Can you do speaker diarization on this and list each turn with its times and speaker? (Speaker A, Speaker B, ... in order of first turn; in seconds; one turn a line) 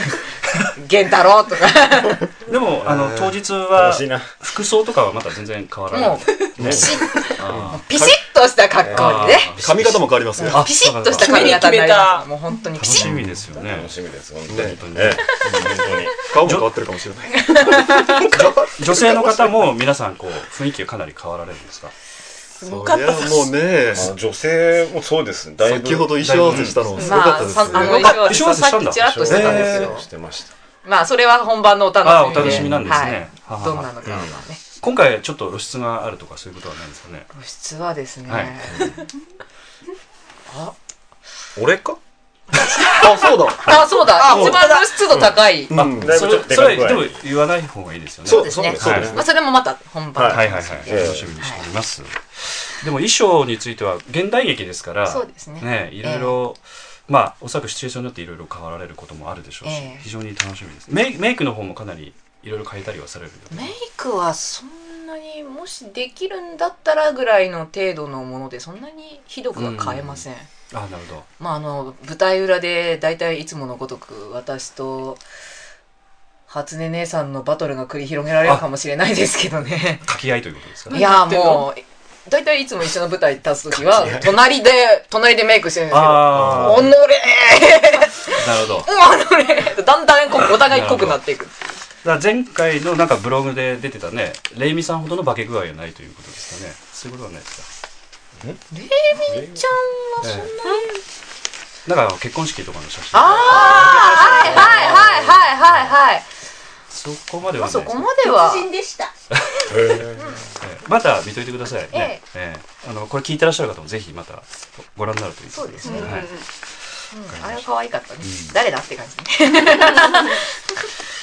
Speaker A: 0.8-2.3
Speaker B: 2.5-7.8
Speaker C: 2.8-4.3
Speaker A: 5.9-9.5
Speaker C: 6.6-7.0
Speaker D: 7.6-8.2
Speaker C: 8.8-9.3
Speaker B: 8.8-11.6
Speaker D: 9.6-10.7
Speaker A: 10.4-13.2
Speaker E: 11.2-12.2
Speaker B: 12.7-15.8
Speaker C: 13.6-16.2
Speaker D: 14.5-14.9
Speaker D: 16.2-17.6
Speaker B: 16.4-16.8
Speaker A: 17.4-18.4
Speaker C: 18.1-19.7
Speaker B: 18.1-21.9
Speaker E: 22.6-23.6
Speaker D: 22.6-24.1
Speaker C: 23.9-26.8
Speaker D: 25.6-28.0
Speaker B: 26.2-29.9
Speaker E: 26.9-27.3
Speaker A: 27.0-30.1
Speaker E: 27.9-28.4
Speaker C: 29.0-30.5
Speaker A: 30.8-34.6
Speaker B: 32.0-33.9
Speaker C: 32.4-32.8
Speaker C: 34.0-34.4
Speaker B: 34.8-37.3
Speaker A: 37.3-39.0
Speaker B: 38.3-38.8
Speaker A: 40.5-40.7
Speaker C: 41.6-42.0
Speaker D: 43.0-44.6
Speaker A: 43.6-45.7
Speaker E: 44.1-44.9
Speaker B: 45.1-49.2
Speaker D: 45.7-46.3
Speaker C: 46.0-47.2
Speaker C: 48.2-49.3
Speaker A: 48.3-51.6
Speaker C: 50.1-51.3
Speaker B: 50.3-63.8
Speaker A: 55.0-56.4
Speaker A: 59.6-60.0
Speaker A: 63.5-70.5
Speaker B: 69.5-71.3
Speaker A: 71.4-75.2
Speaker A: 76.5-80.1
Speaker B: 80.0-81.0
Speaker E: 80.9-81.7
Speaker A: 80.9-91.8
Speaker C: 83.9-84.3
Speaker B: 85.9-86.9
Speaker D: 86.3-86.9
Speaker B: 88.3-88.9
Speaker B: 90.5-91.2
Speaker B: 92.0-97.7
Speaker A: 98.7-100.9
Speaker C: 99.3-99.6
Speaker B: 100.2-100.5
Speaker E: 100.6-101.0
Speaker B: 101.8-105.9
Speaker A: 103.1-106.2
Speaker C: 103.7-105.3
Speaker B: 106.9-108.0
Speaker A: 107.6-108.7
Speaker E: 108.7-109.1
Speaker B: 109.3-116.3
Speaker C: 109.7-110.4
Speaker A: 111.9-112.2
Speaker A: 115.5-116.3
Speaker E: 115.8-116.4
Speaker A: 117.1-120.7
Speaker B: 117.3-117.7
Speaker B: 118.2-118.5